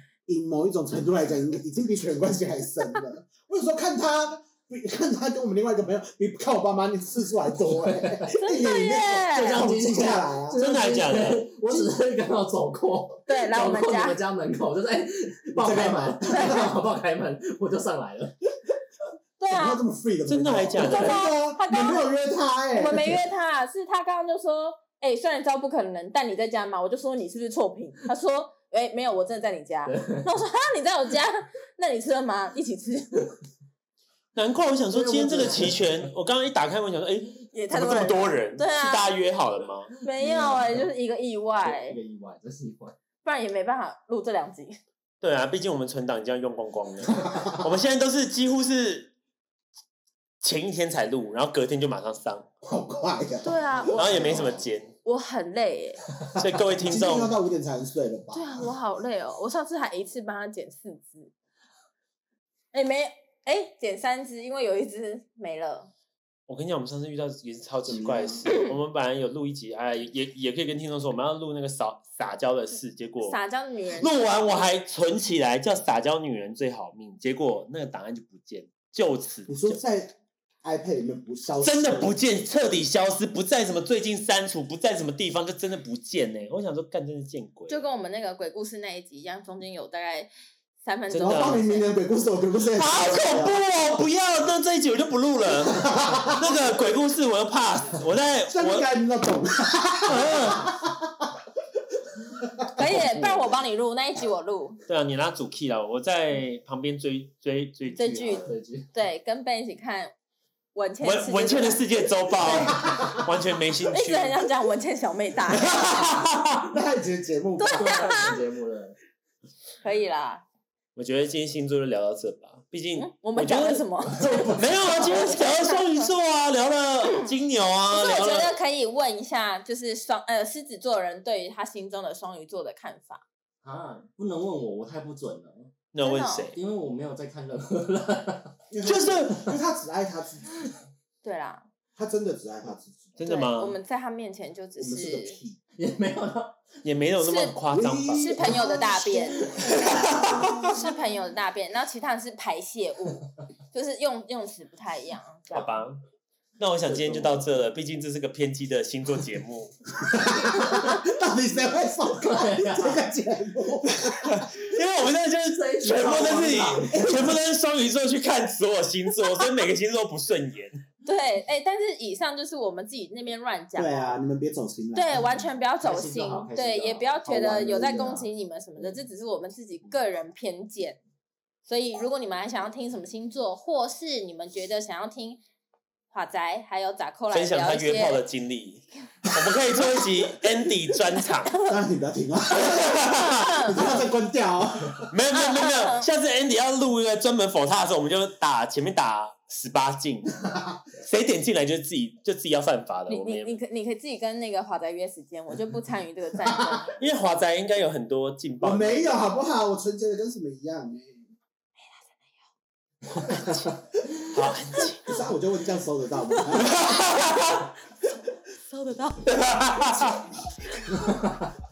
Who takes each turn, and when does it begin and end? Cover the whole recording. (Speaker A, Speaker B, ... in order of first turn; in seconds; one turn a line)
Speaker A: 0.3-10.6
Speaker B: 7.7-8.3
Speaker C: 8.4-9.6
Speaker B: 9.2-18.4
Speaker D: 10.6-11.5
Speaker C: 13.3-14.2
Speaker A: 15.5-16.7
Speaker C: 16.3-16.6
Speaker C: 19.4-19.8
Speaker A: 19.5-23.2
Speaker D: 20.3-21.3
Speaker C: 20.8-22.1
Speaker C: 22.7-33.3
Speaker B: 29.9-30.3
Speaker D: 34.3-39.9
Speaker B: 34.9-36.1
Speaker C: 37.5-39.1
Speaker C: 40.0-42.0
Speaker B: 40.2-40.9
Speaker B: 41.6-42.9
Speaker C: 43.2-44.8
Speaker D: 45.2-49.1
Speaker D: 50.4-52.5
Speaker A: 52.6-54.6
Speaker C: 53.4-54.0
Speaker D: 53.9-54.9
Speaker B: 54.0-54.5
Speaker C: 55.0-56.0
Speaker D: 56.4-57.3
Speaker A: 56.7-58.7
Speaker C: 58.3-61.3
Speaker C: 62.7-65.9
Speaker D: 66.5-73.4
Speaker A: 67.9-68.5
Speaker C: 73.2-74.6
Speaker D: 74.0-79.8
Speaker A: 79.5-82.2
Speaker D: 81.6-87.8
Speaker C: 87.7-90.3
Speaker C: 90.8-91.9
Speaker D: 91.1-91.6
Speaker A: 91.2-93.6
Speaker D: 92.7-98.9
Speaker A: 95.8-96.5
Speaker A: 98.5-101.3
Speaker D: 100.0-100.7
Speaker A: 102.3-102.7
Speaker C: 102.8-104.8
Speaker D: 102.8-103.6
Speaker D: 104.9-108.5
Speaker C: 107.9-110.1
Speaker B: 108.2-108.9
Speaker C: 110.7-113.0
Speaker D: 111.0-114.4
Speaker A: 112.8-113.2
Speaker C: 113.9-116.3
Speaker D: 115.5-116.6
Speaker A: 116.7-118.3
Speaker C: 117.6-118.4
Speaker B: 117.7-119.0
Speaker C: 119.8-120.4
Speaker D: 121.0-123.8
Speaker C: 123.0-126.1
Speaker A: 124.1-124.9
Speaker D: 124.5-128.5
Speaker C: 127.0-127.3
Speaker C: 127.9-133.2
Speaker B: 133.6-135.7
Speaker D: 135.9-136.6
Speaker C: 136.0-136.5
Speaker B: 136.5-138.6
Speaker A: 138.7-140.7
Speaker D: 138.8-139.5
Speaker C: 141.2-141.7
Speaker A: 141.9-143.1
Speaker D: 143.2-143.8
Speaker C: 143.2-145.4
Speaker A: 144.8-145.6
Speaker B: 145.8-146.7
Speaker D: 146.8-148.4
Speaker C: 147.2-147.6
Speaker A: 147.7-150.8
Speaker C: 148.1-149.5
Speaker B: 149.2-150.7
Speaker D: 149.7-150.6
Speaker C: 150.6-155.9
Speaker D: 155.5-156.0
Speaker D: 156.6-159.7
Speaker B: 156.8-157.4
Speaker A: 160.0-164.5
Speaker B: 162.1-163.0
Speaker D: 164.0-170.8
Speaker B: 165.5-167.3
Speaker A: 166.9-167.3
Speaker C: 171.0-174.1
Speaker A: 173.8-175.4
Speaker C: 174.9-181.0
Speaker B: 175.8-178.1
Speaker A: 177.2-178.3
Speaker C: 181.6-185.4
Speaker C: 186.1-188.2
Speaker D: 187.3-191.6
Speaker A: 191.6-195.1
Speaker D: 192.6-194.0
Speaker C: 193.2-193.9
Speaker D: 195.1-200.4
Speaker C: 195.3-196.1
Speaker D: 200.9-203.5
Speaker C: 203.1-207.0
Speaker D: 207.0-209.3
Speaker A: 208.6-211.3
Speaker C: 211.8-212.3
Speaker D: 214.3-215.1
Speaker A: 215.0-217.0
Speaker D: 216.6-217.7
Speaker C: 218.7-219.3
Speaker D: 219.2-220.2
Speaker A: 219.9-220.2
Speaker B: 220.9-221.5